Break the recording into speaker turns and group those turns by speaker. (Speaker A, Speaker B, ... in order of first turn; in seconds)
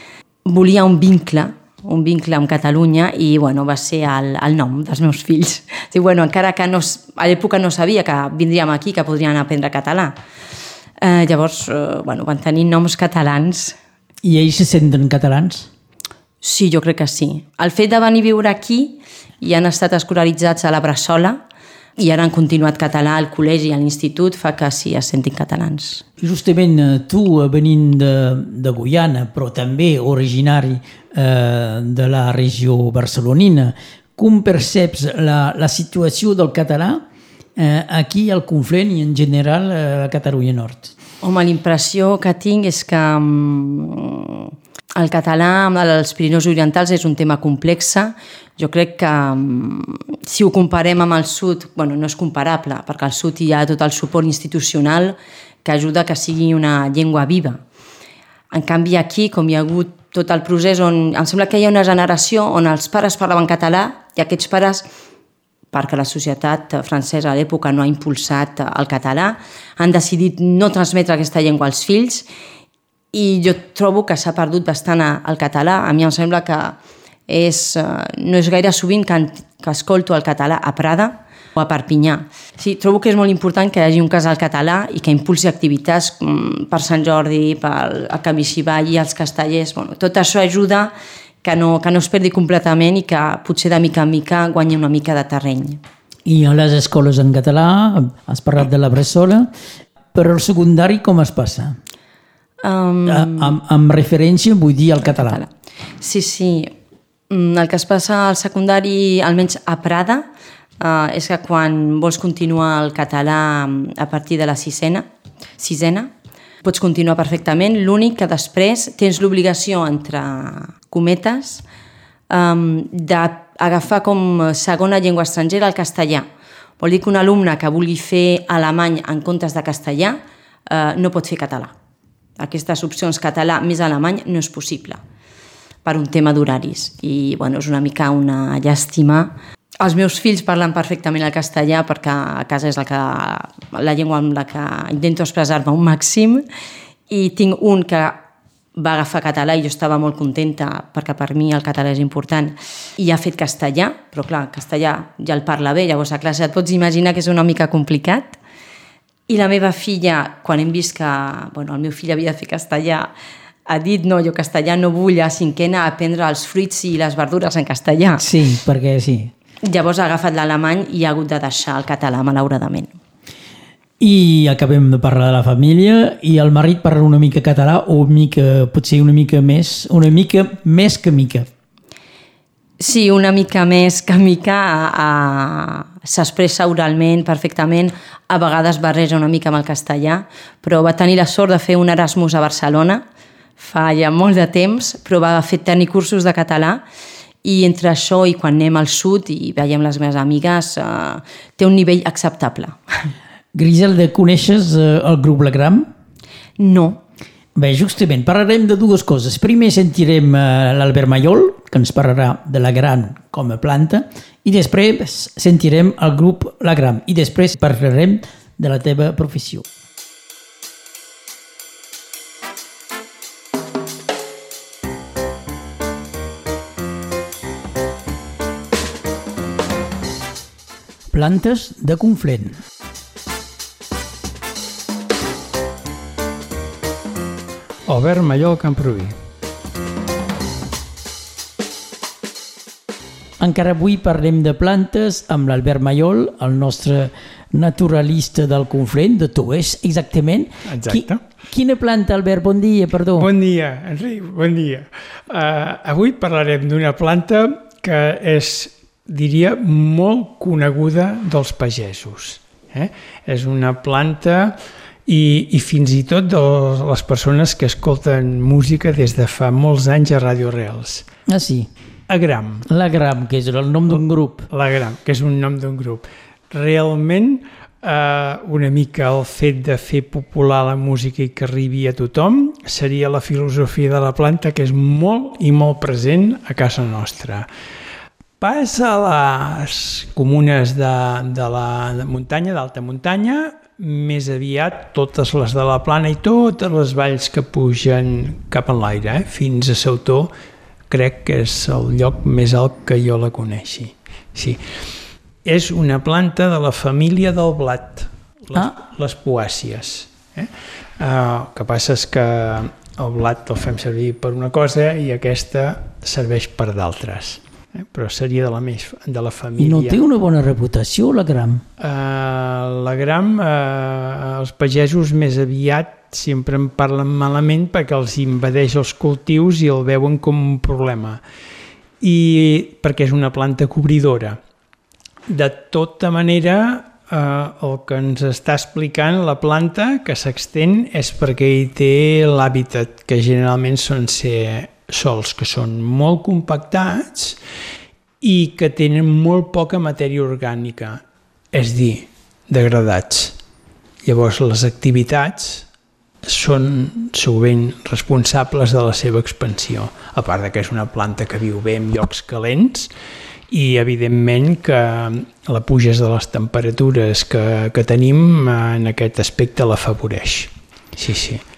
Speaker A: 0.5-10.1, 11.0-13.8, 16.4-21.4, 22.0-26.0, 41.2-57.6, 58.5-64.9, 65.7-72.2, 73.1-76.8, 77.3-95.8, 102.6-103.6, 105.0-106.7, 107.3-110.2, 110.8-115.1, 115.6-116.1, 116.6-121.6, 122.3-126.3, 126.8-131.7, 132.4-135.0, 135.8-146.4, 147.1-148.2, 148.8-158.4, 159.3-163.1, 163.7-168.2, 169.6-173.0, 182.8-193.0, 193.6-196.8, 197.4-202.8, 206.6-207.0
Speaker B: 14.2-15.7, 26.2-37.0, 37.6-40.9, 96.2-99.5, 100.1-101.8, 103.1-105.4, 168.2-169.3, 174.0-181.5, 203.5-205.9, 207.6-219.7, 231.1-232.6, 243.4-253.3, 271.3-271.7, 272.7-274.5, 319.6-321.6
Speaker C: 237.9-239.2, 250.7-251.2, 253.2-271.1, 272.1-272.7, 274.5-287.5, 288.4-300.3, 300.9-304.6, 305.4-320.0, 321.8-331.2, 332.0-334.4, 335.3-347.4, 348.2-353.4, 354.0-355.7, 356.2-362.9, 363.5-371.4